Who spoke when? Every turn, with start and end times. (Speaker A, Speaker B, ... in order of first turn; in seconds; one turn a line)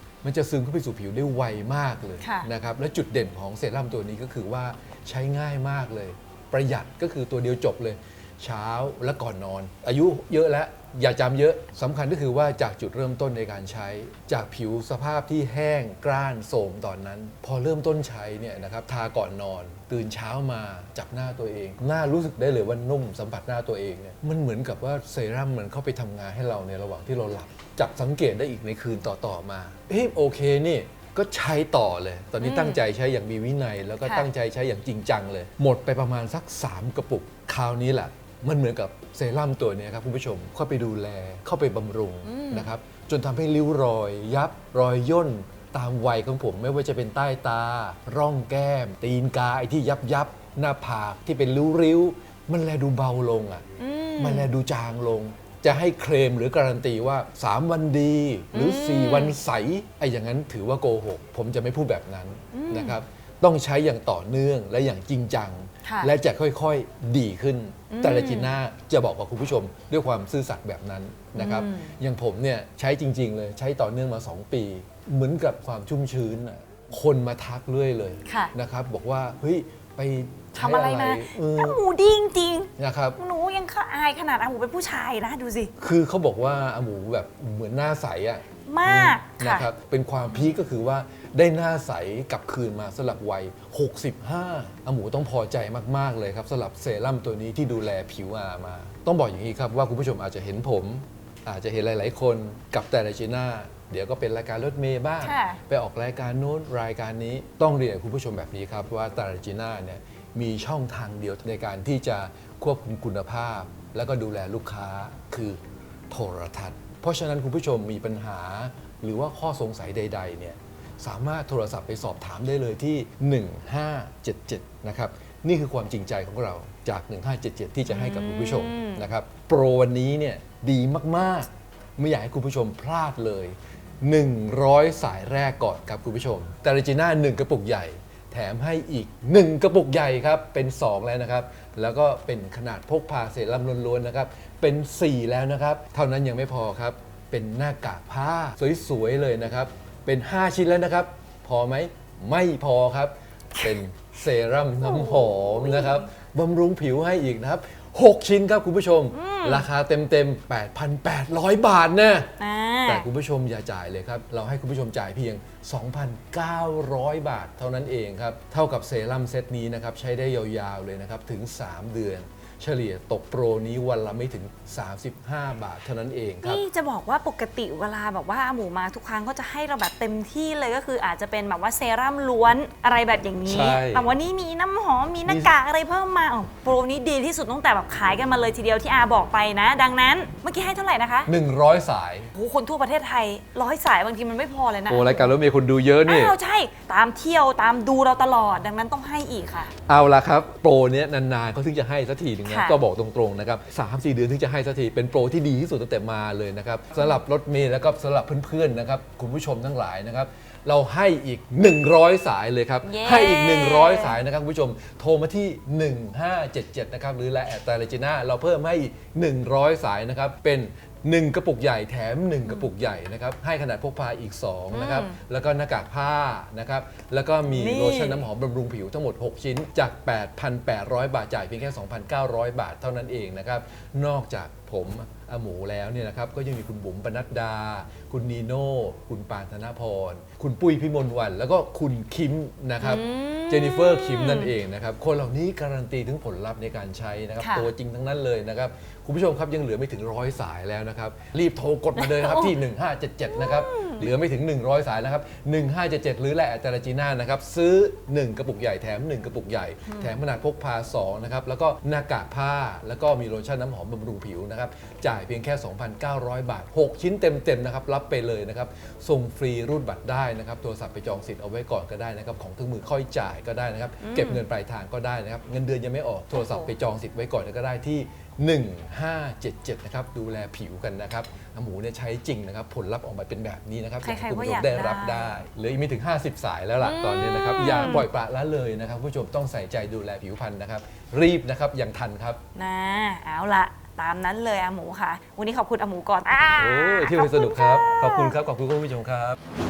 Speaker A: 0.2-53.6
Speaker B: 2.2-2.5
Speaker B: 32.4-32.8
Speaker B: 42.2-42.7
Speaker B: 53.8-54.5
Speaker A: 54.2-81.8
Speaker B: 58.5-59.4
Speaker B: 62.5-63.0
Speaker B: 65.8-66.1
Speaker B: 67.9-68.5
Speaker B: 71.3-71.9
Speaker B: 78.2-78.5
Speaker B: 80.5-85.7
Speaker A: 82.8-83.2
Speaker A: 85.8-162.3
Speaker B: 88.7-89.7
Speaker B: 105.2-105.6
Speaker B: 127.9-129.1
Speaker B: 154.8-156.0
Speaker B: 159.1-159.7
Speaker B: 162.4-163.1
Speaker A: 162.8-176.6
Speaker B: 176.4-191.3
Speaker A: 183.4-184.1
Speaker A: 185.2-185.5
Speaker A: 191.3-192.3
Speaker B: 192.3-195.3
Speaker A: 194.9-196.4
Speaker B: 196.0-199.7
Speaker A: 199.9-292.4
Speaker B: 202.4-202.8
Speaker B: 212.8-214.2
Speaker B: 224.7-225.2
Speaker B: 227.5-228.2
Speaker B: 242.8-244.5
Speaker B: 247.4-247.7
Speaker B: 251.9-252.5
Speaker B: 253.3-254.1
Speaker B: 259.9-260.1
Speaker B: 274.0-274.4
Speaker B: 276.3-276.7
Speaker B: 284.0-285.4
Speaker B: 286.8-288.1
Speaker B: 292.6-298.4
Speaker A: 296.6-299.4